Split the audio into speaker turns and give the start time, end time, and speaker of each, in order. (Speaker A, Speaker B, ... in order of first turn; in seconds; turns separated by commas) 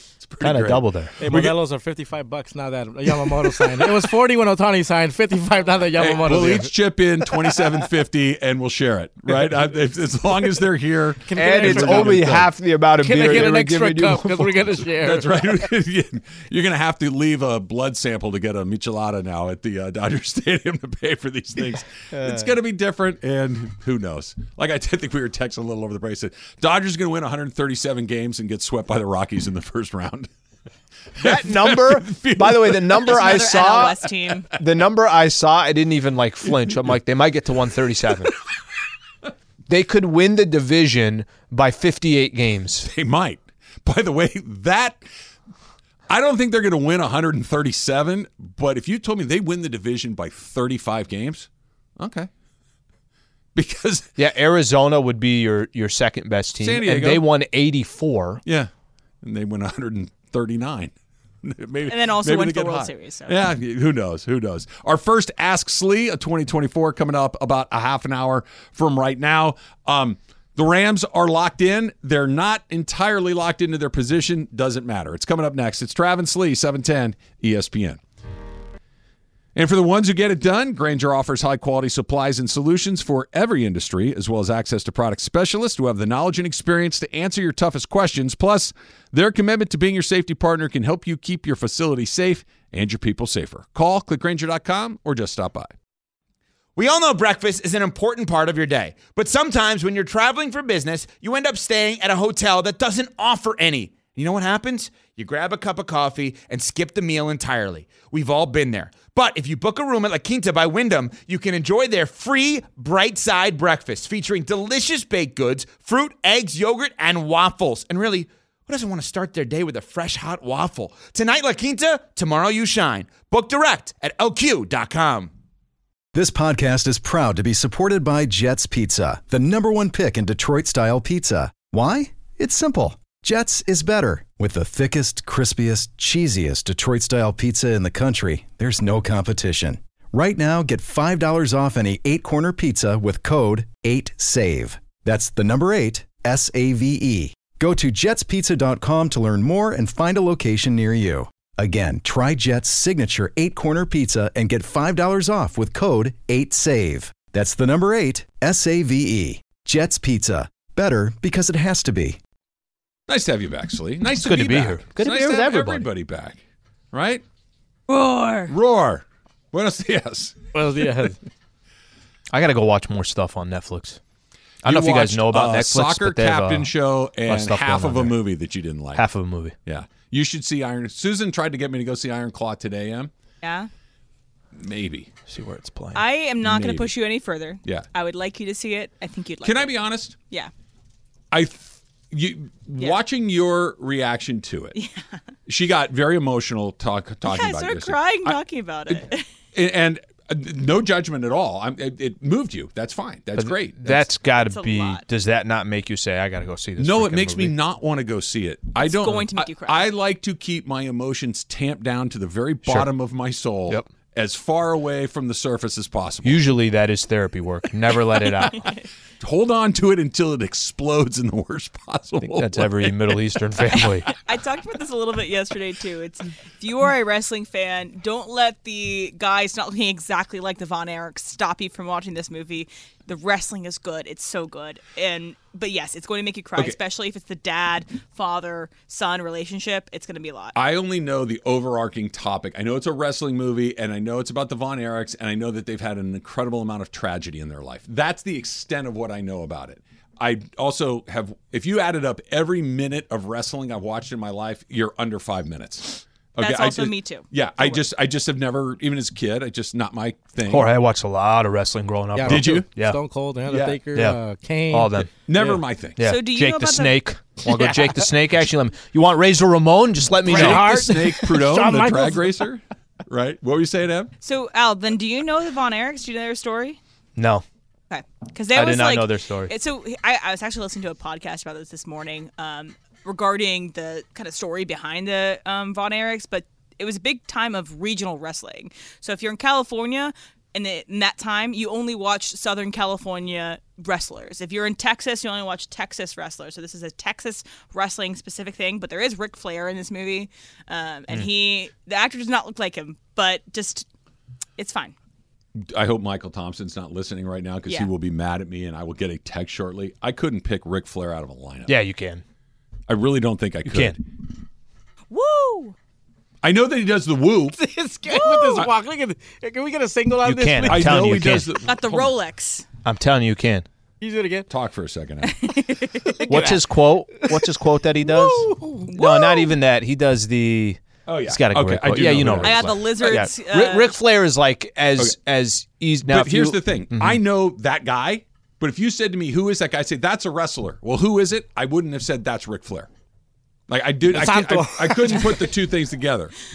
Speaker A: 0.2-1.6, Speaker B: 0.4-1.2, Speaker C: 1.2-6.7, Speaker A: 6.0-12.5, Speaker C: 11.2-12.4, Speaker B: 11.3-14.8, Speaker C: 13.0-15.6, Speaker A: 15.0-30.3, Speaker A: 31.2-33.7, Speaker B: 31.2-38.3, Speaker D: 33.1-34.5, Speaker B: 39.7-42.9, Speaker A: 42.8-45.0, Speaker A: 46.1-51.5, Speaker A: 52.0-52.3, Speaker A: 53.5-54.1, Speaker B: 54.2-58.4, Speaker A: 56.6-57.3, Speaker A: 59.2-78.0, Speaker D: 61.9-63.4, Speaker A: 79.5-95.7, Speaker E: 96.8-125.3, Speaker F: 126.2-162.2, Speaker A: 163.1-166.4, Speaker B: 164.2-165.9, Speaker A: 166.9-167.2, Speaker D: 167.9-168.5, Speaker A: 168.5-170.4, Speaker C: 170.5-171.2, Speaker B: 172.3-174.0, Speaker B: 174.6-178.2, Speaker A: 174.6-179.0, Speaker B: 178.9-179.6, Speaker A: 179.7-183.1, Speaker D: 183.4-183.7, Speaker A: 184.6-185.1, Speaker B: 185.3-186.0, Speaker D: 185.9-190.5, Speaker A: 186.4-186.9, Speaker A: 189.4-190.2, Speaker A: 191.3-194.8, Speaker D: 194.8-195.0, Speaker A: 195.5-198.4, Speaker D: 197.3-199.2, Speaker A: 198.9-204.1, Speaker B: 203.4-207.6, Speaker D: 204.4-205.1, Speaker A: 206.8-216.5, Speaker D: 208.8-209.9, Speaker B: 216.2-218.7, Speaker A: 219.2-223.8, Speaker B: 222.2-224.1, Speaker D: 224.1-240.6, Speaker A: 240.6-260.7, Speaker D: 256.4-257.8, Speaker B: 260.5-263.0, Speaker C: 262.1-265.6, Speaker A: 262.2-262.7, Speaker A: 263.5-263.8, Speaker B: 264.7-265.1, Speaker A: 265.1-266.0, Speaker B: 266.0-271.3, Speaker D: 266.0-267.0, Speaker A: 270.3-274.1, Speaker C: 270.3-272.3, Speaker D: 274.2-276.8, Speaker B: 277.2-277.4, Speaker D: 277.9-303.9, Speaker B: 278.5-279.5, Speaker D: 304.6-304.9, Speaker A: 305.6-311.7, Speaker B: 311.7-312.2, Speaker A: 312.9-314.0, Speaker B: 313.6-314.0, Speaker D: 315.1-315.8, Speaker A: 316.4-317.6, Speaker C: 317.6-321.3, Speaker D: 318.1-318.6, Speaker B: 320.2-321.5, Speaker A: 320.7-322.1, Speaker D: 321.7-322.6, Speaker B: 322.9-323.7, Speaker C: 324.0-324.5, Speaker A: 324.5-325.5, Speaker D: 325.4-326.1, Speaker C: 326.0-327.5, Speaker B: 326.3-337.2, Speaker C: 328.0-328.9, Speaker D: 328.9-329.5, Speaker A: 331.1-332.7, Speaker D: 332.4-334.0, Speaker A: 336.1-342.9, Speaker A: 343.7-346.3, Speaker C: 344.1-345.5